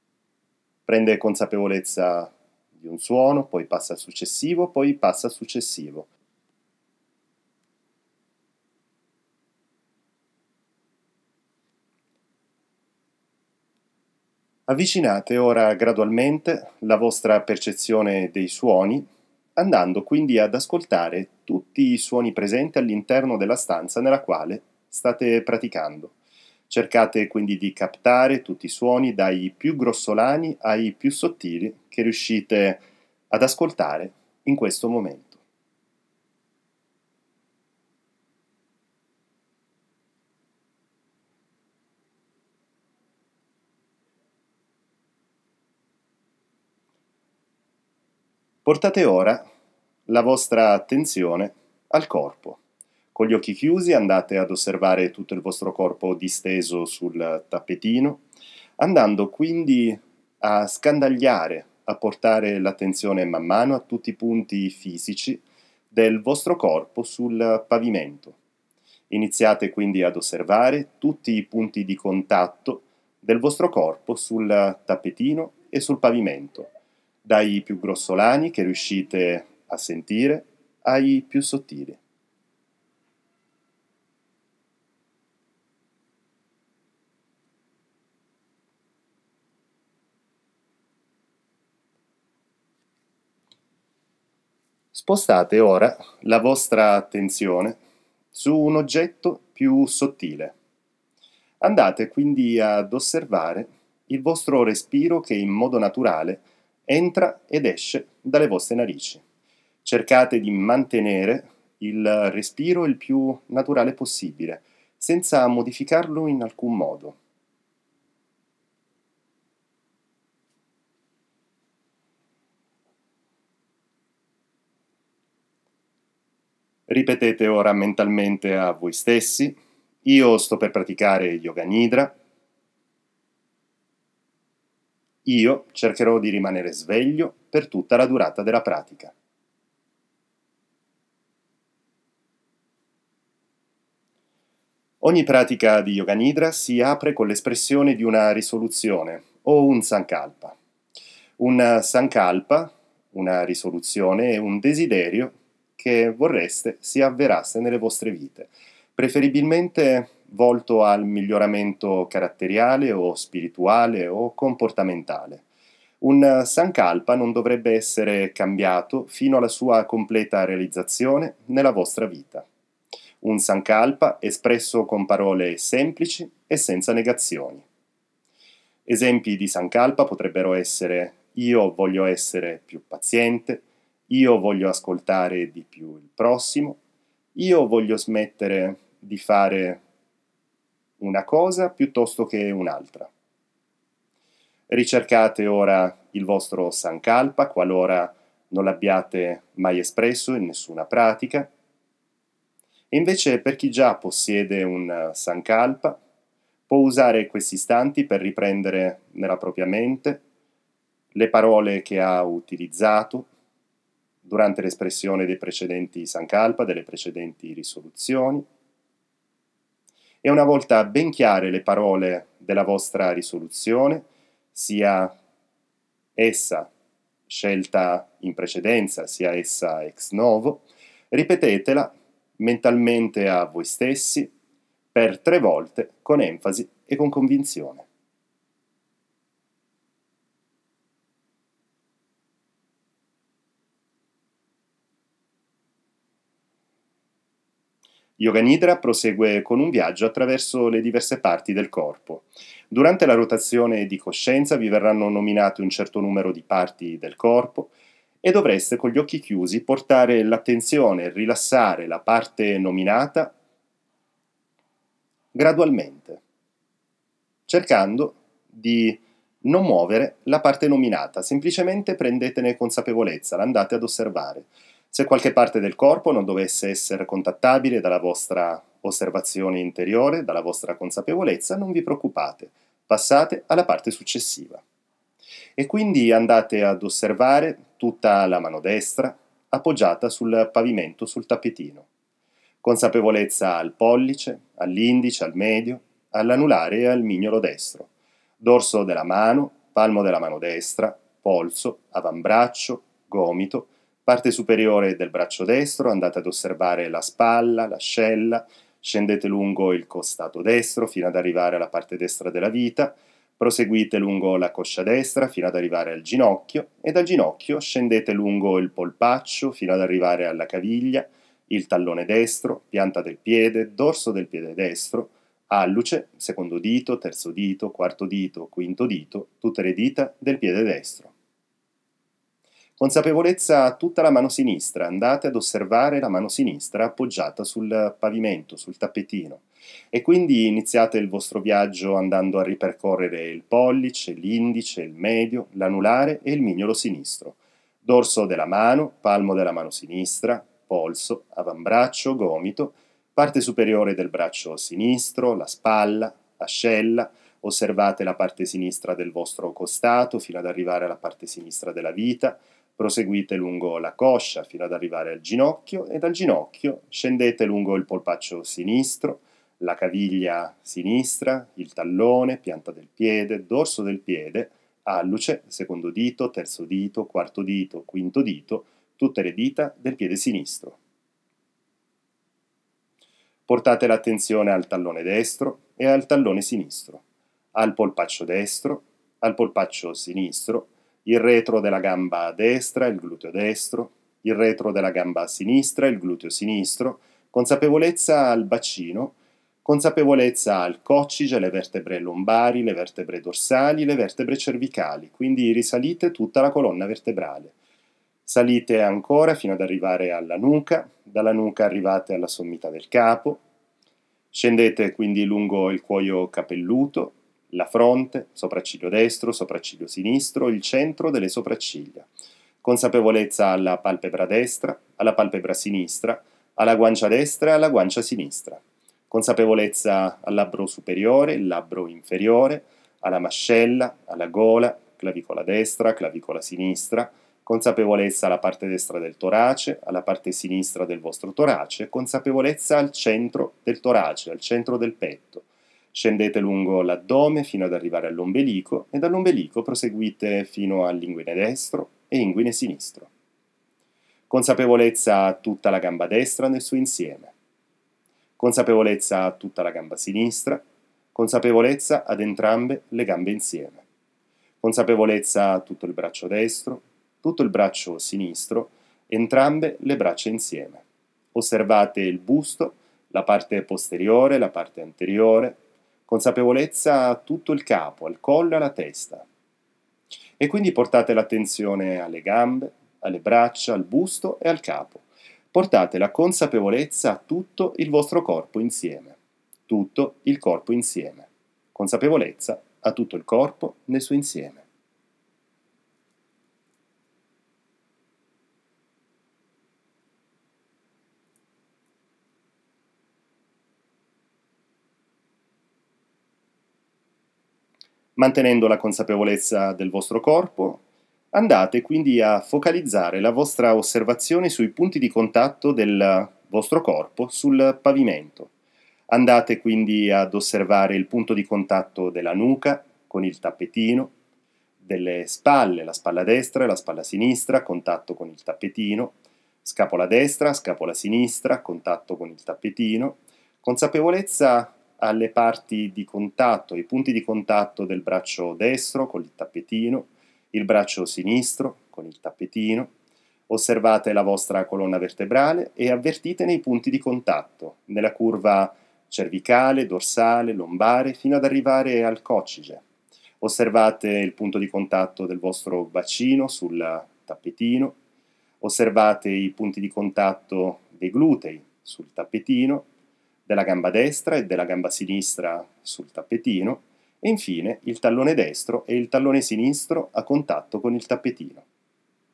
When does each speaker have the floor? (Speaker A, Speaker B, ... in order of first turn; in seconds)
Speaker A: 0.9-6.1, 14.7-26.1, 26.7-35.4, 48.6-49.4, 50.1-52.6, 53.1-58.2, 58.8-68.4, 69.1-76.7, 77.2-82.0, 94.9-97.8, 98.3-100.6, 101.6-109.2, 109.8-117.2, 126.9-132.2, 135.2-139.1, 145.0-150.6, 151.4-165.4, 166.0-172.5, 173.2-177.7, 178.9-186.8, 187.3-189.8, 191.0-193.1, 194.7-201.5, 202.9-206.0, 206.7-210.2, 211.1-213.3, 214.2-218.5, 220.2-225.2, 226.2-226.7, 227.3-234.3, 234.9-237.9, 248.2-263.4, 265.3-266.2, 267.5-284.6, 285.6-291.9, 292.6-331.1, 332.8-380.8, 383.5-387.0, 387.5-407.5, 408.3-413.4, 414.3-422.1, 422.6-453.1, 454.3-457.3, 458.4-463.8, 464.6-479.3, 480.4-489.2, 489.7-494.6, 508.2-518.5, 519.1-524.1, 524.8-542.9, 543.5-552.8, 553.4-558.0, 558.6-562.9, 563.5-571.6